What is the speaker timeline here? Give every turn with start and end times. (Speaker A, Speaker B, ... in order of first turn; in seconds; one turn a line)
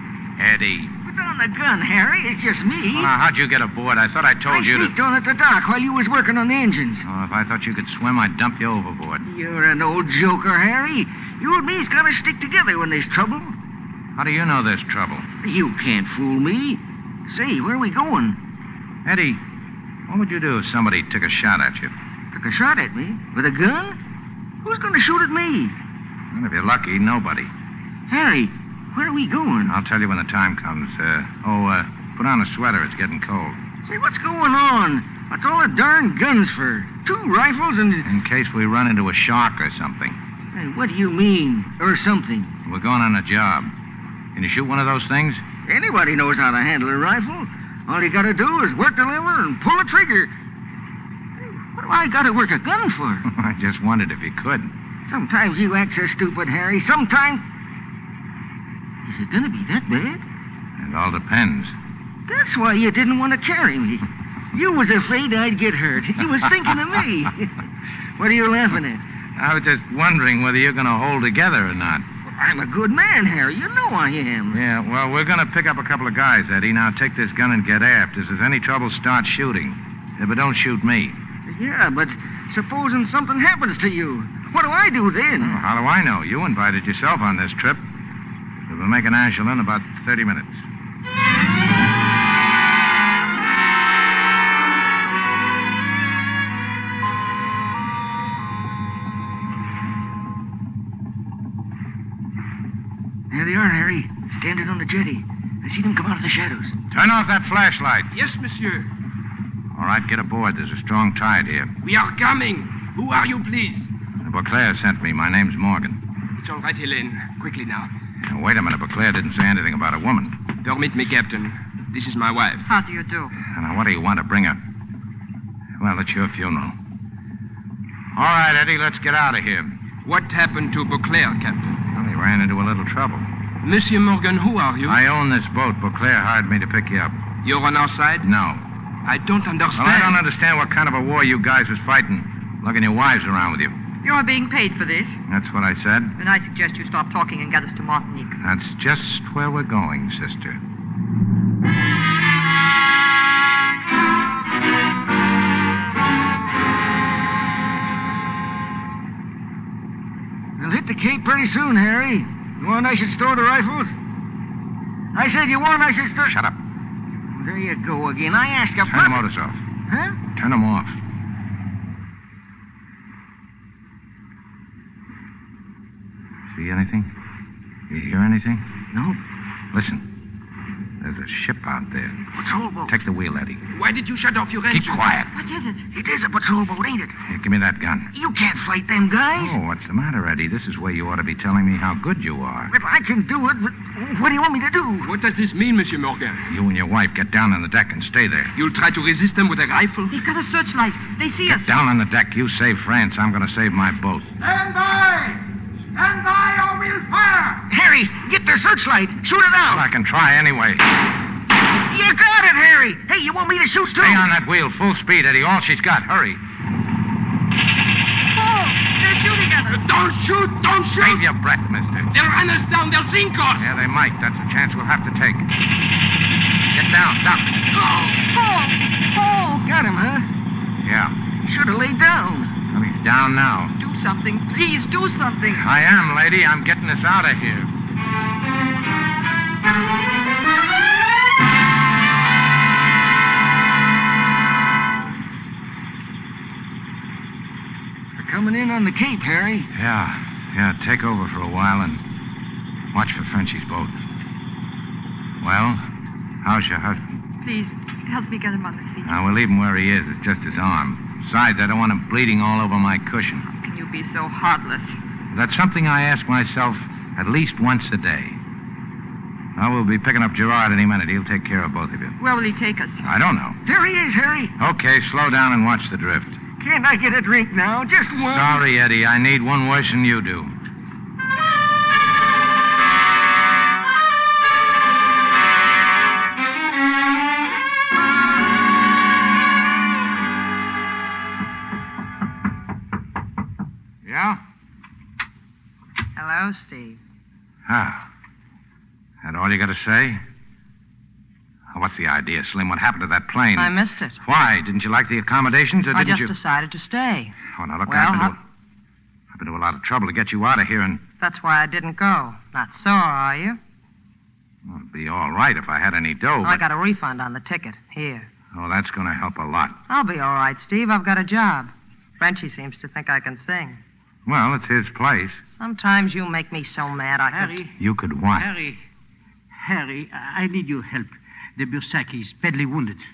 Speaker A: 0.4-0.9
Speaker B: 1.0-3.1
Speaker A: 2.9-4.9
Speaker B: 4.5-7.0
Speaker A: 7.0-9.2
Speaker B: 9.2-13.6
Speaker A: 14.2-15.3
Speaker B: 15.4-18.4
Speaker A: 19.0-19.4
Speaker A: 20.1-21.9
Speaker B: 22.3-24.0
Speaker B: 24.6-25.8
Speaker A: 26.3-27.5
Speaker B: 28.1-29.7
Speaker A: 29.7-33.6
Speaker B: 33.8-38.1
Speaker A: 38.0-40.2
Speaker B: 40.5-42.5
Speaker A: 42.6-43.7
Speaker A: 44.3-45.4
Speaker B: 45.6-50.3
Speaker B: 51.4-53.2
Speaker A: 53.2-54.7
Speaker B: 55.1-57.4
Speaker B: 59.0-60.2
Speaker A: 60.8-61.7
Speaker B: 62.3-67.5
Speaker B: 68.2-69.0
Speaker A: 69.4-72.0
Speaker B: 72.3-74.6
Speaker A: 74.5-81.2
Speaker B: 81.5-85.6
Speaker A: 85.4-87.8
Speaker A: 88.7-90.5
Speaker B: 103.3-106.8
Speaker A: 106.9-108.1
Speaker C: 108.1-108.9
Speaker A: 109.7-111.7
Speaker C: 111.8-113.9
Speaker A: 114.2-116.0
Speaker C: 116.4-117.9
Speaker A: 118.2-120.4
Speaker C: 120.6-122.6
Speaker D: 122.7-123.3
Speaker A: 123.5-124.6
Speaker A: 125.8-126.8
Speaker A: 128.1-129.8
Speaker C: 130.0-131.8
Speaker A: 131.9-133.3
Speaker C: 133.6-135.0
Speaker A: 134.8-137.2
Speaker C: 137.4-138.2
Speaker A: 138.2-138.6
Speaker C: 139.1-140.2
Speaker A: 139.7-143.8
Speaker D: 144.0-145.2
Speaker A: 145.3-146.2
Speaker D: 146.2-148.3
Speaker A: 148.4-150.6
Speaker B: 160.6-163.9
Speaker B: 165.1-166.3
Speaker A: 166.3-166.6
Speaker B: 167.3-169.2
Speaker A: 168.8-169.6
Speaker B: 169.9-170.2
Speaker A: 170.3-170.9
Speaker A: 176.5-177.1
Speaker A: 177.9-178.6
Speaker B: 178.9-179.2
Speaker A: 179.7-180.1
Speaker A: 181.0-182.2
Speaker B: 182.3-182.9
Speaker A: 182.9-183.6
Speaker C: 183.7-185.0
Speaker A: 184.7-185.3
Speaker D: 185.3-185.9
Speaker B: 185.9-187.1
Speaker A: 187.2-188.1
Speaker B: 188.1-189.6
Speaker A: 189.3-192.7
Speaker B: 192.7-195.1
Speaker C: 195.0-196.4
Speaker A: 196.5-198.5
Speaker C: 198.5-200.1
Speaker D: 200.1-201.7
Speaker A: 201.4-204.3
Speaker B: 204.5-205.3
Speaker B: 206.1-206.7
Speaker B: 207.2-209.9
Speaker A: 209.7-210.9
Speaker B: 211.8-214.3
Speaker A: 214.0-216.4
Speaker D: 218.3-219.9
Speaker C: 219.7-221.2
Speaker A: 221.0-222.1
Speaker C: 222.1-223.7
Speaker A: 223.6-225.5
Speaker A: 226.7-227.6
Speaker D: 227.7-229.4
Speaker B: 229.2-230.3
Speaker A: 230.8-231.2
Speaker B: 231.4-232.5
Speaker A: 232.7-233.7
Speaker D: 233.8-235.6
Speaker A: 235.5-237.7
Speaker B: 248.2-249.7
Speaker A: 249.7-252.0
Speaker A: 252.9-253.9
Speaker A: 255.4-255.8
Speaker A: 256.4-257.2
Speaker D: 257.4-259.1
Speaker A: 259.0-263.4
Speaker D: 263.4-264.9
Speaker A: 265.3-268.4
Speaker A: 269.6-272.1
Speaker D: 272.2-273.0
Speaker A: 273.0-273.6
Speaker B: 273.6-274.5
Speaker A: 274.6-276.4
Speaker B: 276.6-278.6
Speaker A: 278.2-280.5
Speaker A: 294.0-294.4
Speaker E: 296.1-297.0
Speaker A: 297.6-298.1
Speaker A: 299.2-300.2
Speaker A: 301.7-306.3
Speaker E: 303.6-304.2
Speaker E: 305.9-307.3
Speaker A: 307.5-308.4
Speaker E: 307.9-308.4
Speaker A: 309.3-311.0
Speaker E: 311.2-313.6
Speaker A: 314.6-316.6
Speaker E: 316.4-318.3
Speaker A: 318.5-319.8
Speaker E: 319.9-323.8
Speaker A: 324.2-325.4
Speaker E: 325.6-327.6
Speaker F: 327.3-327.7
Speaker A: 327.8-328.5
Speaker F: 328.3-328.8
Speaker F: 329.5-333.0